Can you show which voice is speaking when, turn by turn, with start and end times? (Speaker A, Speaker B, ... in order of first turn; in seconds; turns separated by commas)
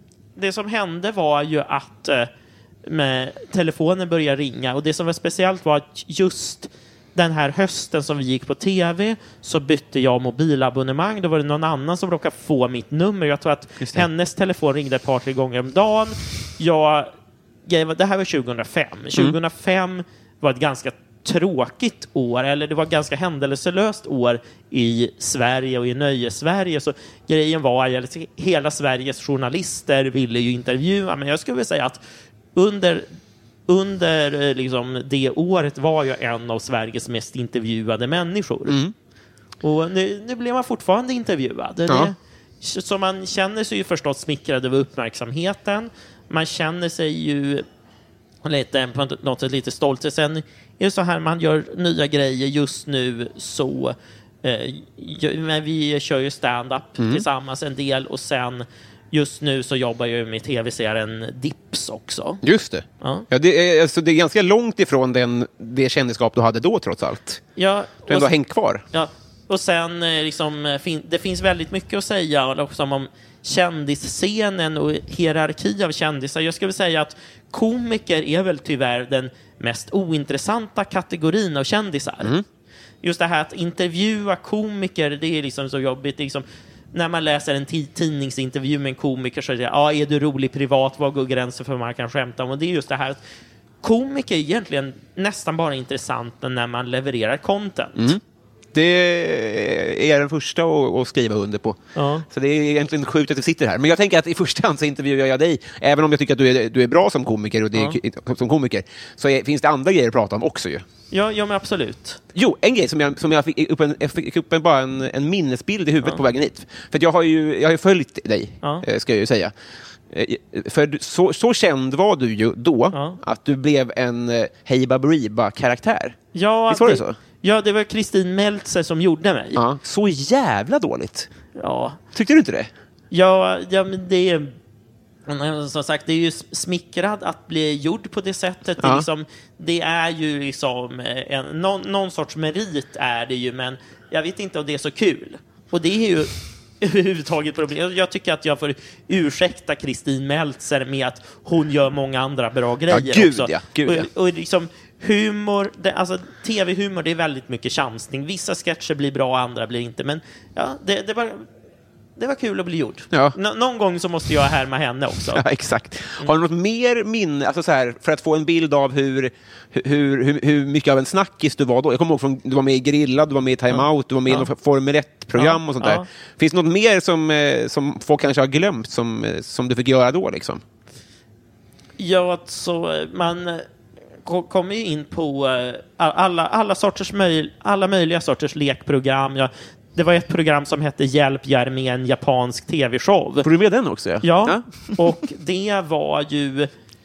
Speaker A: 0.4-2.3, Speaker A: 2.9-17.1, Speaker B: 13.8-14.1, Speaker A: 17.7-32.0, Speaker A: 32.5-33.1, Speaker A: 33.7-38.8, Speaker B: 38.7-38.9, Speaker A: 39.6-47.7, Speaker B: 41.9-42.1, Speaker A: 48.5-62.4, Speaker B: 57.0-57.2, Speaker B: 62.4-67.4, Speaker A: 63.0-63.3, Speaker A: 67.6-68.4, Speaker B: 68.1-68.8, Speaker A: 68.9-82.3, Speaker A: 83.0-93.2, Speaker A: 93.8-98.2, Speaker B: 98.0-98.2, Speaker B: 98.7-110.8, Speaker A: 102.0-102.2, Speaker A: 111.1-112.2, Speaker B: 112.3-119.5, Speaker B: 120.1-127.2, Speaker A: 122.9-123.2, Speaker A: 126.3-129.6, Speaker B: 129.6-131.3, Speaker A: 131.6-132.0, Speaker B: 132.1-132.7, Speaker A: 133.1-134.6, Speaker A: 135.3-161.5, Speaker B: 138.8-139.1, Speaker B: 152.9-154.1, Speaker A: 162.2-165.4, Speaker B: 165.3-180.6, Speaker A: 175.4-176.1, Speaker A: 182.0-183.7, Speaker A: 184.2-193.5, Speaker B: 193.4-195.2, Speaker A: 194.2-196.7